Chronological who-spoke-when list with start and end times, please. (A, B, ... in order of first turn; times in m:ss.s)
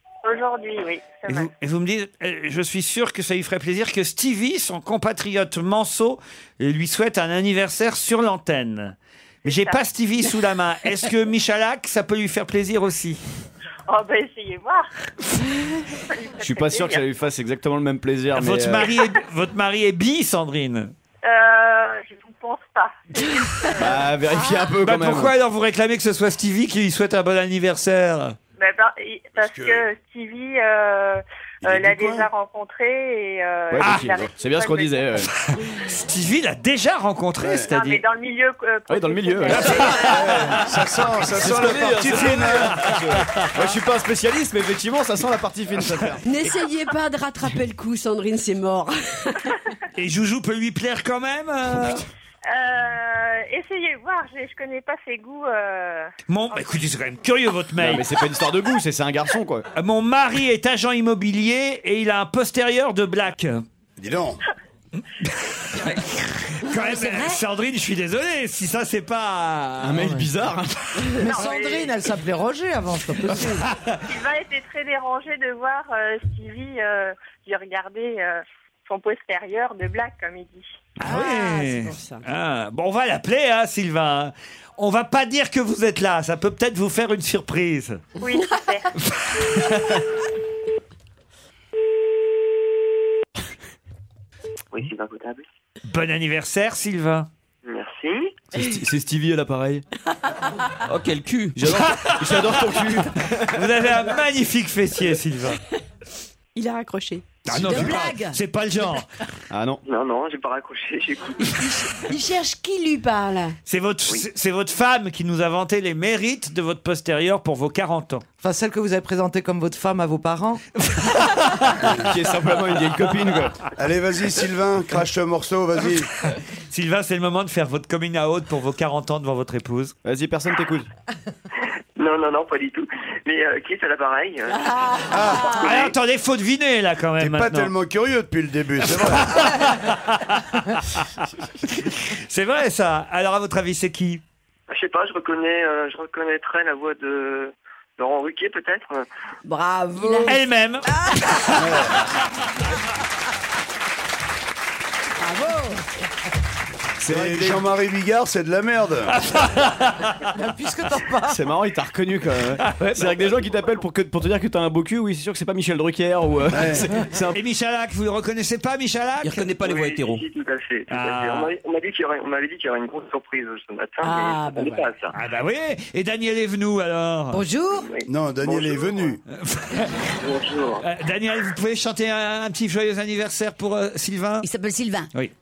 0:00.2-0:01.5 A
0:01.3-0:13.2 B
0:09.4-0:09.8 A
0:13.9-0:14.9 A
0:16.1-0:17.0 A
0:16.4-0:18.9 C
0:18.3-0:20.9 B
0:21.2-0:24.0 A
0:23.8-0:25.3 C
0:24.8-0:28.4 B
0:28.6-0:35.2 A
0:29.4-0:29.8 D
0:31.6-0:32.3 D
0:33.7-0:35.3 C
0:33.8-0:34.1 B
0:35.4-0:38.0 B
0:37.4-0:37.7 D
0:37.7-0:40.4 A
0:38.9-0:40.1 C
0:39.5-0:40.6 B
0:40.0-0:43.0 D
0:41.3-0:46.2 C
0:42.5-0:43.5 B
0:46.2-0:49.6 E
0:49.9-0:52.0 B
0:52.5-0:56.1 A
0:56.3-0:58.0 B
0:57.8-0:59.6 C
0:59.7-1:03.6 B
1:04.0-1:04.4 D
1:05.2-1:10.0 B
1:06.9-1:07.2 E
1:09.8-1:11.1 C
1:10.0-1:10.3 F
1:11.2-1:13.7 F
1:11.2-1:11.9 A
1:13.7-1:14.0 B
1:14.0-1:20.7 A
1:21.0-1:28.0 B
1:21.0-1:22.2 E
1:28.2-1:28.9 A
1:29.0-1:30.0 B
1:34.7-1:35.4 G
1:35.8-1:37.3 B
1:37.6-1:38.4 G
1:38.5-1:39.8 C
1:40.8-1:41.8 H
1:41.5-1:43.6 C
1:41.7-1:42.9 B
1:43.4-1:45.6 B
1:46.5-1:47.3 E
1:47.4-1:49.1 B
1:47.5-1:48.4 I
1:49.5-1:49.8 C
1:49.8-1:51.6 G
1:51.6-1:53.6 E
1:53.7-1:58.2 B
1:58.4-2:00.6 F
2:00.8-2:02.0 B
2:01.9-2:03.6 C
2:03.8-2:06.1 D
2:06.7-2:09.9 B
2:10.0-2:10.9 C
2:12.0-2:15.9 G
2:15.0-2:15.7 E
2:15.1-2:15.6 D
2:15.5-2:17.7 B
2:17.2-2:19.6 D
2:18.8-2:21.1 B
2:21.6-2:24.2 B
2:24.7-2:29.0 G
2:29.4-2:30.4 E
2:30.2-2:31.9 B
2:30.9-2:31.4 E
2:31.5-2:32.0 D
2:35.2-2:35.8 E
2:37.0-2:37.6 C
2:37.1-2:39.2 D
2:39.1-2:40.3 B
2:40.3-2:41.4 F
2:41.3-2:47.4 C
2:46.5-2:46.9 D
2:47.3-2:49.5 B
2:49.2-2:50.3 H
2:49.6-2:55.1 G
2:50.9-2:51.5 B
2:54.0-2:54.9 E
2:55.1-2:57.4 B
2:57.3-2:57.9 I
2:57.8-2:59.1 G
2:58.0-2:59.2 D
2:59.3-3:00.1 B
3:00.2-3:00.8 G
3:00.8-3:04.4 B
3:04.4-3:05.1 I